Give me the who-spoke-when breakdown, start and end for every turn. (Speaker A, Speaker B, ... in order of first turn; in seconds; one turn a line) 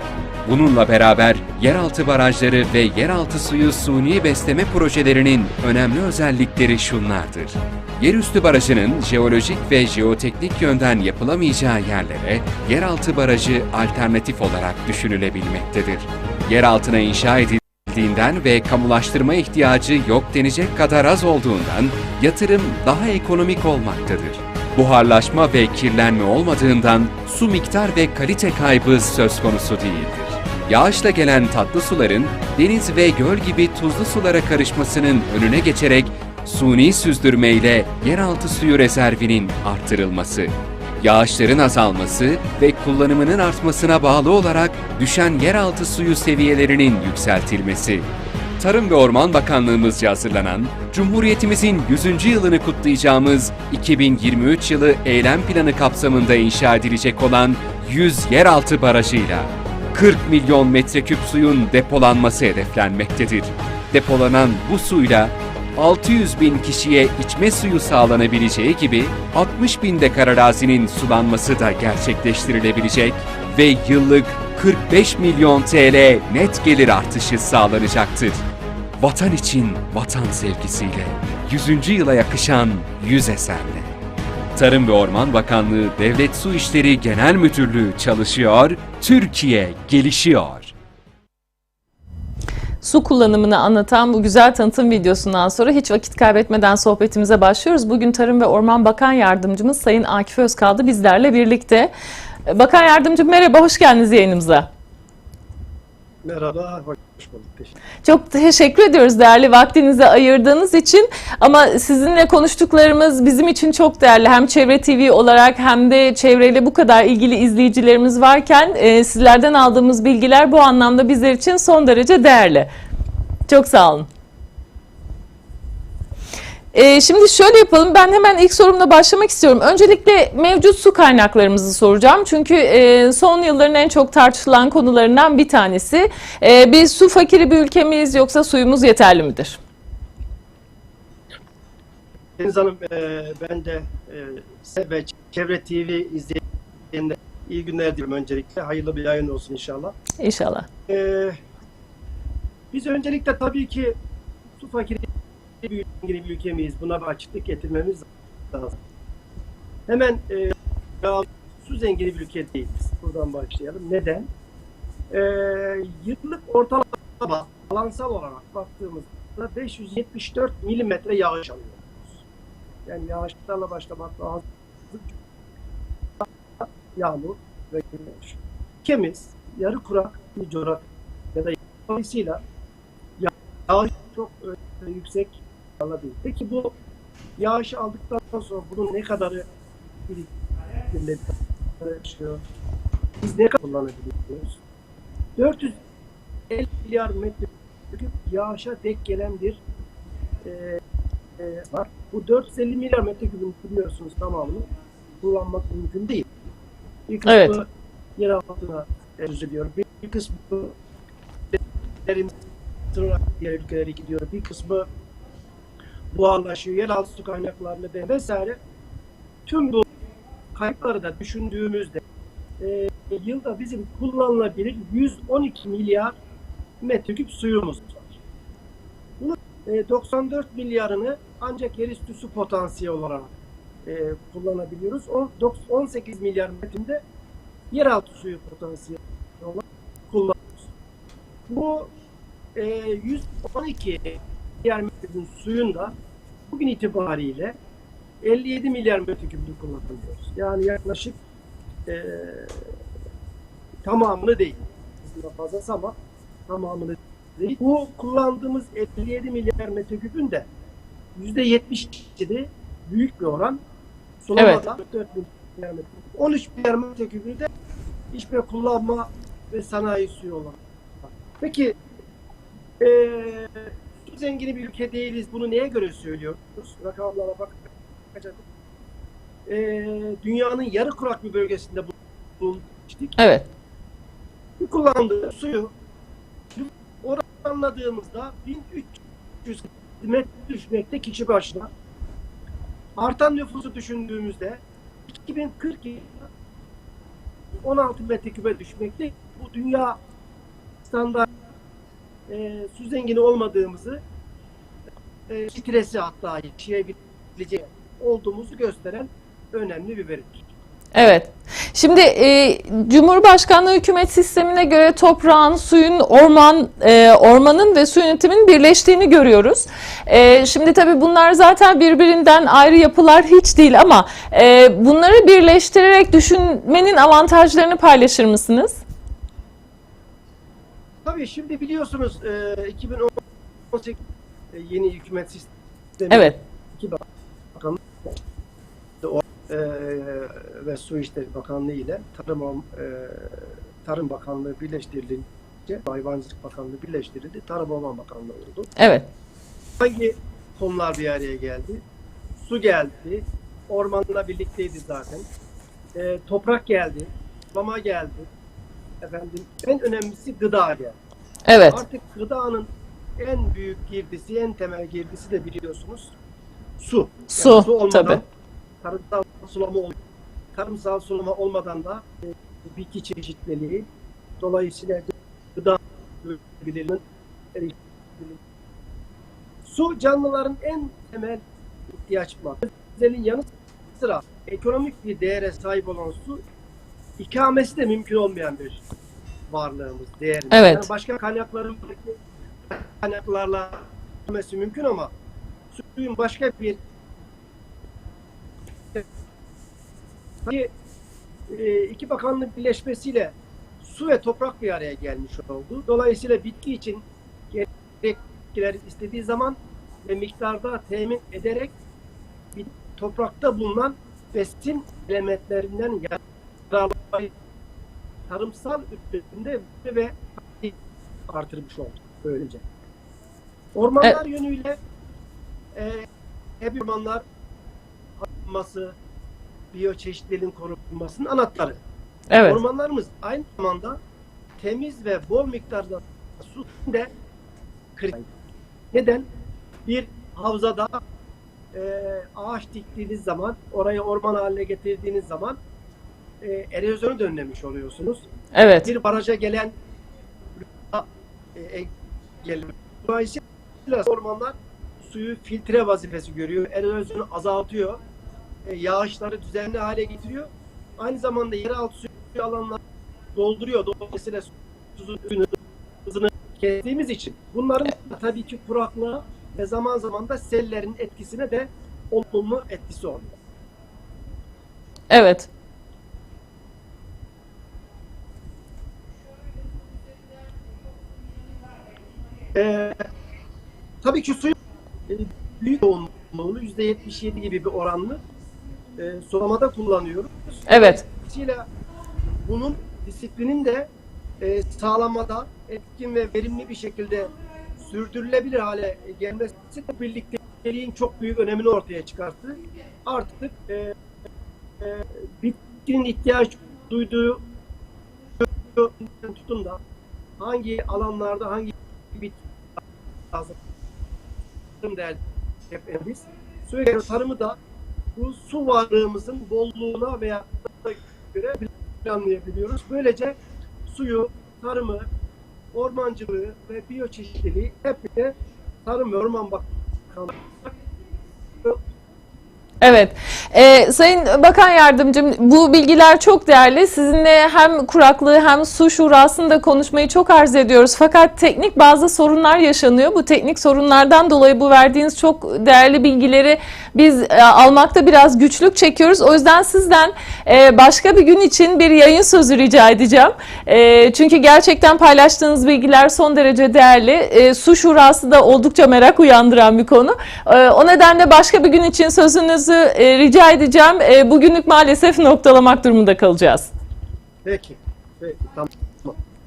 Speaker A: 0.4-78.5
Speaker A: 79.0-84.0
Speaker A: 84.5-90.7
Speaker B: 92.8-101.9
Speaker B: 102.5-104.7
Speaker C: 106.2-107.7
Speaker B: 108.0-122.7
Speaker B: 123.5-124.1
Speaker B: 126.7-139.6
Speaker C: 142.4-146.4
Speaker C: 146.9-150.0
Speaker B: 150.2-150.7
Speaker C: 150.9-151.4
Speaker C: 152.7-153.9
Speaker C: 154.6-155.1
Speaker C: 155.6-158.8
Speaker C: 159.9-164.3
Speaker C: 165.1-172.2
Speaker C: 172.9-175.1
Speaker C: 176.2-182.4
Speaker C: 183.2-186.7
Speaker C: 187.4-189.5
Speaker C: 190.1-190.3
Speaker C: 190.9-192.4
Speaker C: 193.2-194.6
Speaker C: 195.4-195.8
Speaker C: 196.5-199.6
Speaker C: 200.4-200.8
Speaker C: 201.4-204.7
Speaker C: 205.2-206.3
Speaker C: 207.1-207.7
Speaker B: 207.2-207.6
Speaker C: 208.2-210.8
Speaker C: 212.1-212.3
Speaker C: 212.9-214.9
Speaker C: 216.1-218.6
Speaker C: 219.5-219.9
Speaker C: 220.6-222.0
Speaker C: 222.6-226.2
Speaker C: 226.8-228.2
Speaker C: 229.2-233.3
Speaker C: 233.8-237.0
Speaker C: 237.7-240.7
Speaker C: 241.5-241.9
Speaker C: 242.6-245.9
Speaker C: 246.5-247.6
Speaker C: 248.2-251.2
Speaker C: 251.9-252.7
Speaker C: 253.8-256.0
Speaker C: 256.5-260.5
Speaker C: 261.2-263.6
Speaker C: 264.2-267.5
Speaker B: 264.4-264.6
Speaker C: 268.1-270.6
Speaker C: 271.4-271.8
Speaker C: 272.8-278.4
Speaker C: 279.5-283.2
Speaker B: 283.2-283.5
Speaker C: 284.6-285.7
Speaker C: 286.6-291.7
Speaker C: 293.0-296.3
Speaker C: 297.6-300.0
Speaker C: 300.8-301.3
Speaker C: 302.3-304.0
Speaker C: 305.3-310.5
Speaker B: 310.9-328.8
Speaker C: 331.1-333.2
Speaker C: 333.7-334.0
Speaker C: 334.5-337.0
Speaker B: 336.1-336.4
Speaker C: 339.0-348.7
Speaker B: 348.8-349.1
Speaker C: 349.8-351.8
Speaker C: 352.4-355.3
Speaker C: 355.9-358.3
Speaker C: 359.0-361.0
Speaker B: 361.5-361.8
Speaker C: 361.6-366.1
Speaker C: 366.8-368.2
Speaker B: 367.3-368.2
Speaker C: 368.8-370.0
Speaker C: 370.5-372.1
Speaker C: 372.7-373.9
Speaker C: 374.4-377.0
Speaker C: 377.5-378.4
Speaker C: 379.6-381.4
Speaker C: 382.0-386.4
Speaker C: 387.2-388.8
Speaker C: 389.5-392.2
Speaker B: 390.5-390.9
Speaker C: 392.7-395.1
Speaker C: 395.7-396.8
Speaker C: 400.4-400.7
Speaker C: 401.5-411.8
Speaker C: 412.6-417.3
Speaker C: 418.3-420.8
Speaker C: 421.3-422.6
Speaker C: 423.8-424.8
Speaker C: 425.7-426.1
Speaker C: 426.6-427.2
Speaker C: 428.2-428.9
Speaker C: 429.7-431.8
Speaker B: 432.3-432.6
Speaker C: 432.4-434.0
Speaker C: 434.6-437.1
Speaker C: 438.0-438.3
Speaker C: 438.9-439.3
Speaker C: 439.9-441.0
Speaker C: 441.7-445.6
Speaker C: 446.4-448.3
Speaker B: 448.5-448.9
Speaker C: 448.8-449.8
Speaker C: 450.6-451.9
Speaker C: 452.4-458.0
Speaker C: 458.7-462.8
Speaker C: 463.4-473.4
Speaker B: 475.1-475.5
Speaker C: 482.5-483.1
Speaker C: 484.0-484.6
Speaker C: 485.1-488.2
Speaker C: 489.0-491.7
Speaker B: 490.7-491.0
Speaker C: 492.4-493.9
Speaker C: 494.4-503.9
Speaker C: 504.8-507.4
Speaker C: 508.4-509.8
Speaker C: 510.4-512.4
Speaker C: 514.8-517.6
Speaker C: 518.1-525.1
Speaker C: 525.7-528.3
Speaker C: 528.9-530.7
Speaker B: 532.8-566.7
Speaker C: 567.4-569.2